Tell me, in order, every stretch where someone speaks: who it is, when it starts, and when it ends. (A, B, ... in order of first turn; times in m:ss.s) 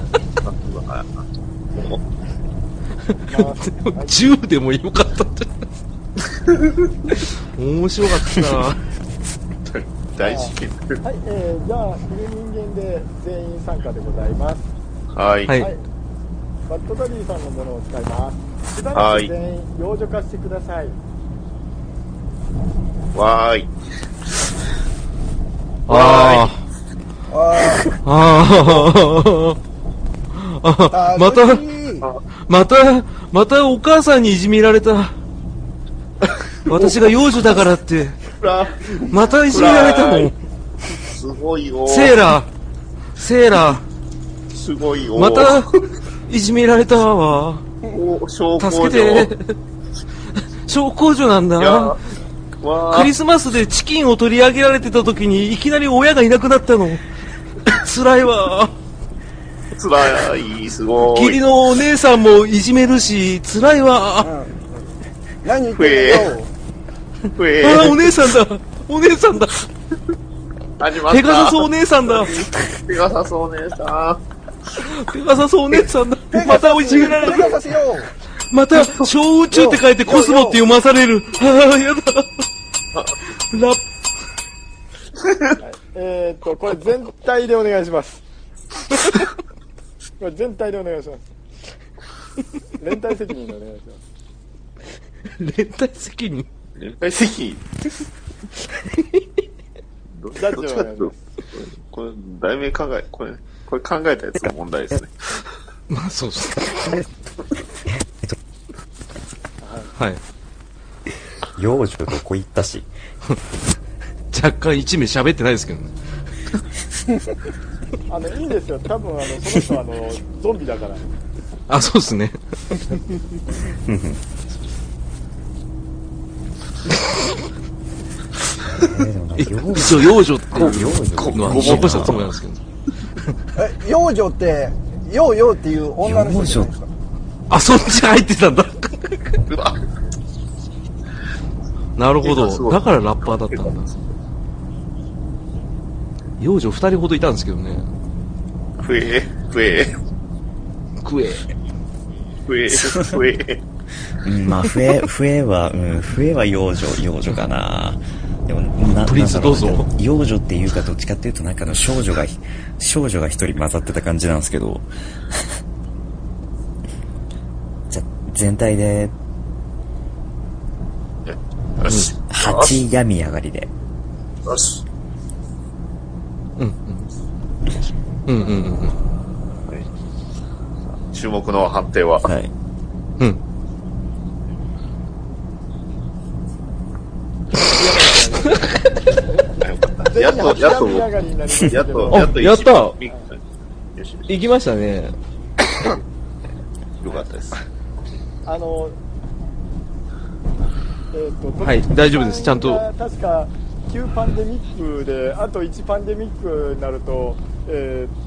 0:00.4-0:01.1 A
0:03.3-0:04.2 B
0:03.3-0:05.6 C
0:07.5-0:08.8 C
0:09.6-0:11.0 A
0:10.2-0:14.7 B
0:15.1-0:15.6 A
0:15.5-0:15.7 C
0:15.6-0:15.8 B
0:16.7-0:21.0 B
0:18.9-0:19.3 A
0:23.1-0:23.7 A
0:25.9-0:26.5 A
0:25.9-0:26.6 C
0:27.3-0:27.9 D
0:27.9-0:29.6 C
0:30.3-0:31.6 C
0:30.9-0:32.1 D
0:32.5-0:35.2 C
0:36.6-0:38.2 C
0:36.7-0:37.6 A
0:38.3-0:40.3 A
0:39.1-0:40.4 C
0:41.0-0:42.2 A
0:41.8-0:42.5 C
0:43.2-0:43.8 C
0:44.5-0:45.8 A
0:45.2-0:45.7 C
0:46.3-0:47.6 C
0:47.9-0:49.3 A
0:48.6-0:49.6 C
0:50.6-0:52.0 C
0:51.6-0:52.0 A
0:52.6-0:53.1 A
0:52.9-0:57.0 C
0:57.6-0:58.7 C
0:59.7-1:01.4 A
1:01.0-1:04.3 C
1:04.2-1:04.5 D
1:05.4-1:06.5 D
1:05.7-1:06.3 A
1:07.3-1:08.1 A
1:07.6-1:09.7 C
1:10.8-1:14.2 A
1:11.1-1:12.5 C
1:14.8-1:17.7 C
1:16.3-1:18.1 D
1:18.5-1:22.4 C
1:19.5-1:20.6 D
1:23.5-1:23.8 C
1:25.3-1:25.5 A
1:25.6-1:28.2 B
1:30.2-1:31.2 B
1:32.8-1:34.0 B
1:35.4-1:36.5 C
1:36.8-1:37.6 A
1:38.8-1:39.2 C
1:40.2-1:45.4 A
1:40.3-1:41.2 B
1:45.9-1:47.0 C
1:49.6-1:49.9 B
1:51.6-1:52.9 E
1:54.3-1:55.9 C
1:58.1-2:01.1 B
2:01.7-2:02.9 C
2:03.7-2:04.2 E
2:08.6-2:12.3 E
2:09.4-2:12.6 C
2:10.5-2:12.3 A
2:13.6-2:16.9 D
2:16.0-2:16.7 E
2:17.5-2:19.4 C
2:19.5-2:19.8 A
2:22.0-2:23.9 C
2:22.2-2:23.7 A
2:26.4-2:27.8 C
2:28.8-2:30.0 A
2:31.0-2:31.5 C
2:32.4-2:33.6 A
2:34.2-2:44.9 E
2:39.0-2:39.8 C
2:47.9-2:49.1 E
2:51.2-2:52.7 A
2:52.3-2:53.7 E
2:54.4-2:54.8 A
2:56.6-2:57.1 C
2:58.3-2:59.0 C
3:00.9-3:02.3 A
3:02.2-3:02.5 E
3:07.6-3:08.7 B
3:09.6-3:13.4 A
3:10.1-3:12.3 B
3:12.1-3:13.0 C
3:14.0-3:14.2 A
3:14.3-3:15.1 C
3:17.0-3:17.6 A
3:18.4-3:19.0 B
3:21.1-3:28.1 B
3:21.6-3:22.8 C